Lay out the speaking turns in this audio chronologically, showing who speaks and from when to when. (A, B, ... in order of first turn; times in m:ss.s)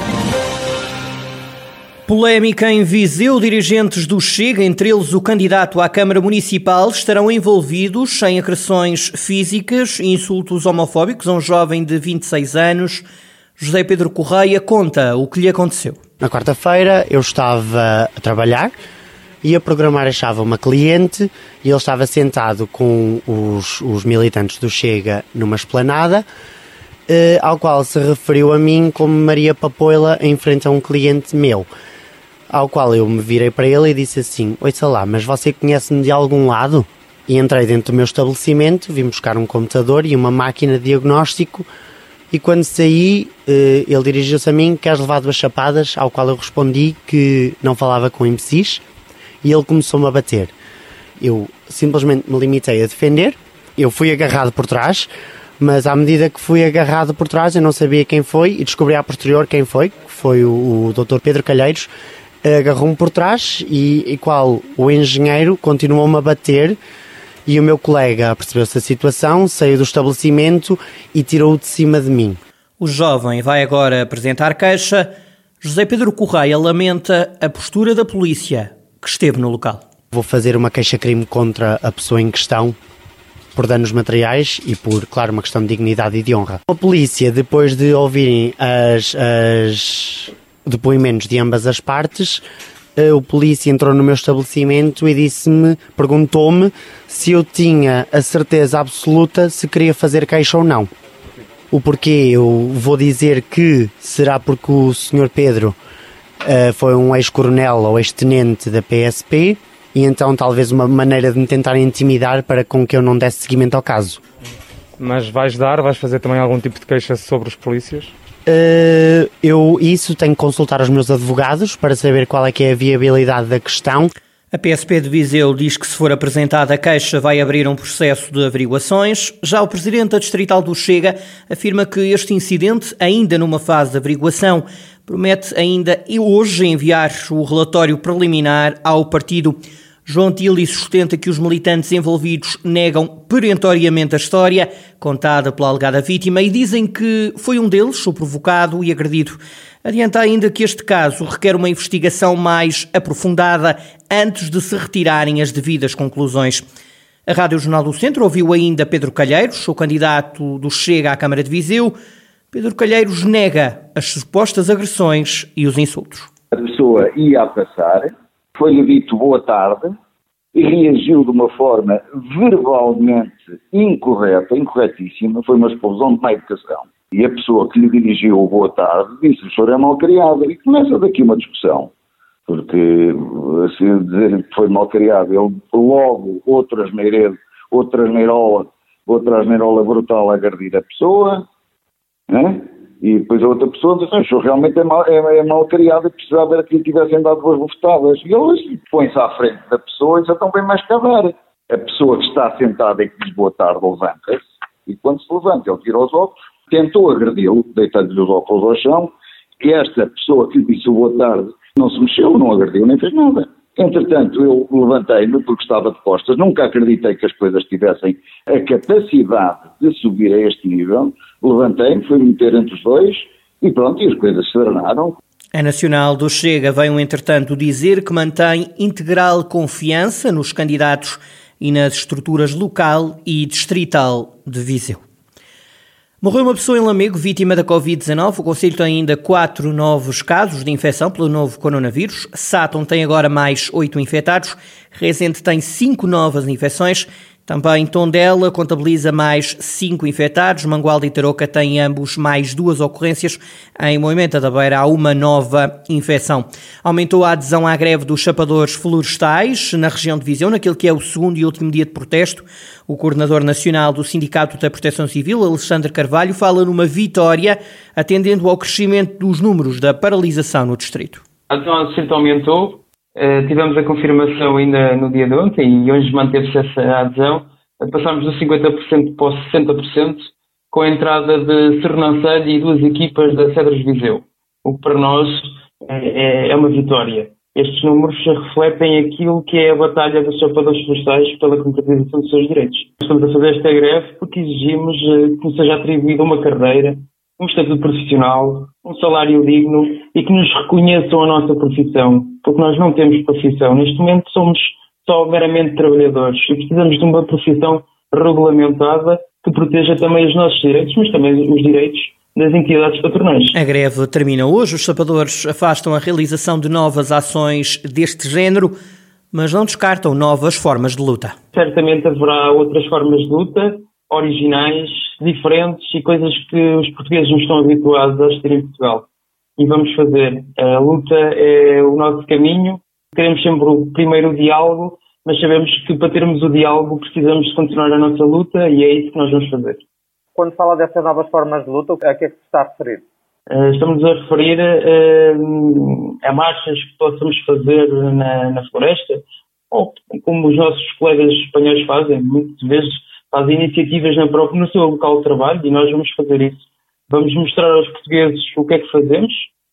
0:02.1-0:13.0 A
0:13.6-0:16.0 A
0:16.2-0:18.7 B
0:19.4-0:26.2 B
0:27.1-0:31.7 B
0:32.5-0:41.6 B
0:42.3-0:48.8 B
0:49.4-0:50.5 B
0:51.2-0:55.1 B
0:55.6-1:01.9 B
1:02.4-1:06.8 B
1:07.5-1:12.4 B
1:12.8-1:19.8 A
1:20.1-1:22.8 B
1:23.5-1:32.4 B
1:33.0-1:40.9 B
1:41.7-1:45.8 B
1:46.4-1:54.2 B
1:55.0-1:58.1 C
1:58.4-2:04.1 B
2:04.5-2:36.6 A
2:37.3-2:41.9 A
2:42.5-2:46.3 A
2:46.6-2:49.9 D
2:50.5-3:01.9 D
3:02.5-3:11.4 D
3:12.3-3:45.2 D
3:45.5-3:55.0 A
3:56.2-4:31.2 A
4:31.5-5:13.6 E
5:13.5-5:18.7 A
5:19.3-5:21.4 A
5:21.5-5:29.1 E
5:29.6-5:39.8 E
5:40.3-5:43.0 F
5:43.5-5:59.5 E